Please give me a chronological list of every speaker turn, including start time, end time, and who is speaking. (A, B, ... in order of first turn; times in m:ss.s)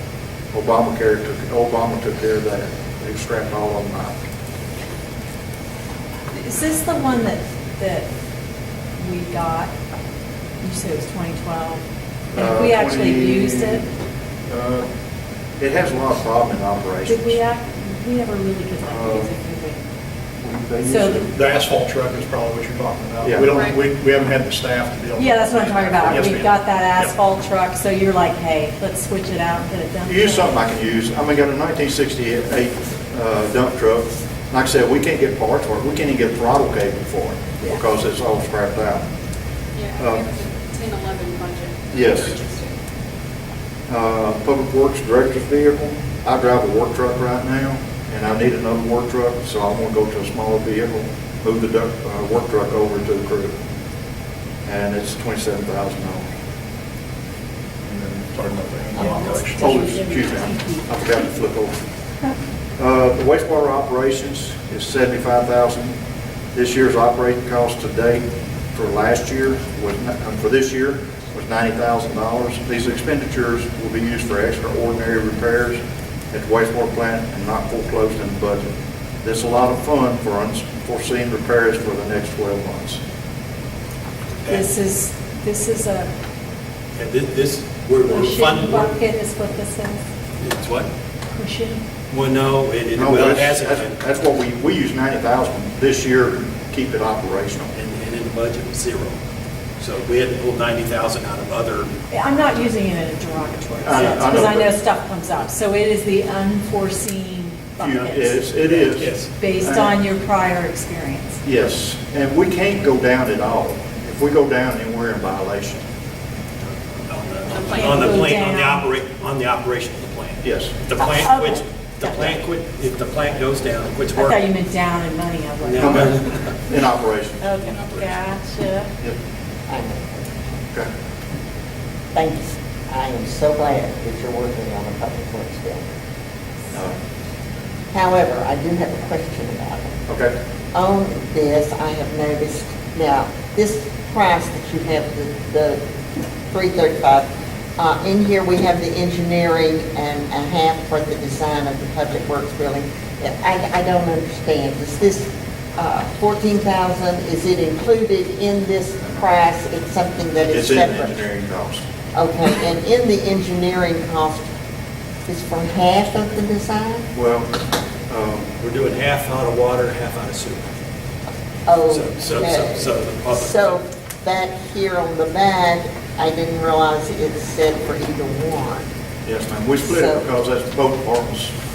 0:00.5-0:04.2 A
0:06.3-0:08.1 B
0:09.0-0:09.7 B
0:10.6-0:11.8 B
0:12.3-0:13.8 A
0:12.3-0:13.8 B
0:14.5-0:14.9 A
0:15.6-0:17.4 A
0:17.0-0:19.8 B
0:18.8-0:19.3 A
0:20.4-0:21.3 A
0:20.8-0:21.2 B
0:21.2-0:27.1 C
0:23.2-0:23.5 A
0:23.5-0:23.8 D
0:25.2-0:30.6 B
0:30.0-0:39.1 A
0:39.8-0:42.7 D
0:40.0-0:40.2 A
0:41.9-0:42.4 A
0:43.9-0:53.6 A
0:54.6-0:56.2 A
0:57.9-0:59.8 C
0:59.0-1:00.9 B
0:59.0-1:01.7 A
1:02.8-1:06.0 A
1:06.5-1:15.8 A
1:16.3-1:18.7 A
1:19.2-1:23.0 A
1:24.5-1:26.1 B
1:27.0-1:28.9 E
1:28.0-1:30.0 B
1:30.4-1:30.9 E
1:31.3-1:31.8 B
1:32.1-1:33.9 E
1:32.9-1:37.8 A
1:37.8-1:39.1 E
1:39.8-1:41.9 E
1:42.1-1:51.4 B
1:43.8-1:44.7 A
1:43.9-1:44.4 E
1:47.8-1:49.9 A
1:48.9-1:49.3 E
1:51.4-1:55.8 A
1:56.6-2:04.4 E
1:57.5-1:58.2 D
1:57.6-1:58.9 B
2:00.4-2:00.7 A
2:01.0-2:02.4 B
2:04.1-2:06.5 B
2:05.6-2:06.5 E
2:05.8-2:06.1 A
2:06.6-2:07.5 A
2:07.4-2:08.9 B
2:07.6-2:08.2 E
2:09.7-2:10.2 F
2:12.1-2:15.8 F
2:17.9-2:20.0 F
2:20.1-2:20.4 A
2:20.7-2:25.8 F
2:26.5-2:41.1 F
2:40.4-2:41.8 A
2:42.1-2:44.5 F
2:45.3-2:47.0 F
2:47.1-2:48.5 A
2:48.6-2:50.6 E
2:51.7-2:58.9 F
2:51.9-2:53.8 E
2:59.2-3:01.5 A
2:59.8-3:00.2 F